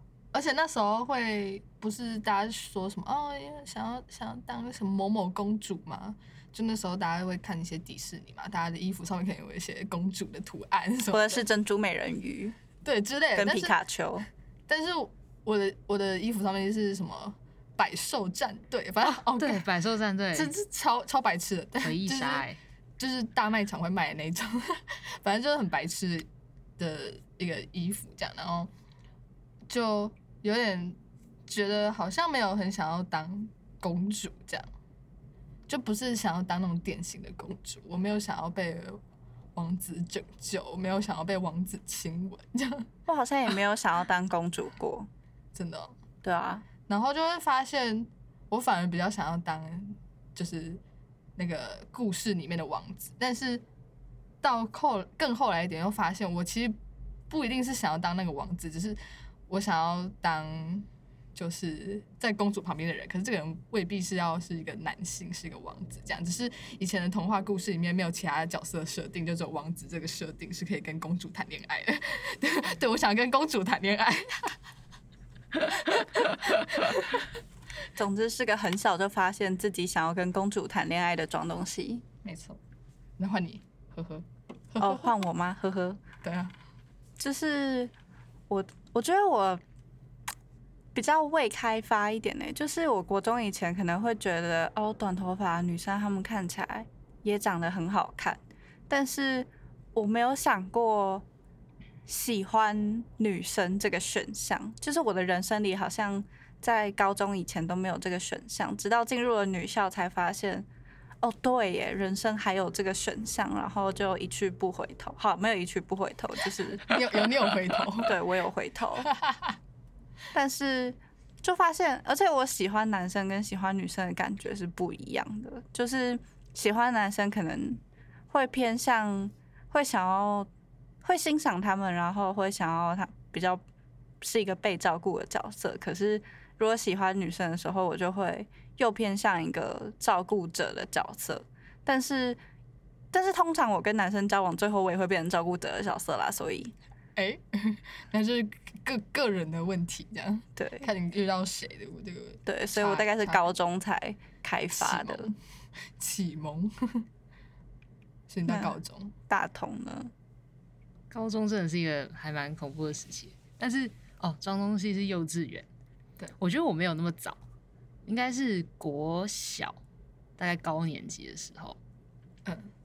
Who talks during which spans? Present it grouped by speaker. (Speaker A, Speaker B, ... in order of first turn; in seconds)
Speaker A: 0.3-11.5, 12.8-13.8, 14.7-19.6, 20.3-22.4, 23.0-26.3, 26.8-28.7, 29.7-34.7, 35.7-39.0, 39.5-42.9, 45.5-45.9, 46.9-50.8, 51.4-53.6, 54.4-56.8, 57.3-74.6, 75.5-77.3, 82.2-82.6, 83.2-85.2, 86.2-86.5, 116.9-118.1, 119.2-119.5, 147.2-153.5, 154.7-155.3, 156.0-157.1, 158.3-159.1, 172.4-172.7
Speaker B: 11.1-12.5, 13.3-14.3, 43.1-45.1, 46.2-46.6, 77.9-82.0, 84.8-86.0, 87.2-87.9, 88.5-89.6, 90.9-101.2, 102.0-110.7, 111.2-116.9, 118.0-119.1, 120.3-130.5, 131.0-133.6, 134.2-142.4, 143.1-146.7, 150.6-150.9, 152.4-155.3, 158.5-158.7, 159.3-160.1
Speaker C: 19.2-20.5, 21.8-22.6, 161.1-165.7, 166.4-167.4, 168.1-169.8, 170.4-171.8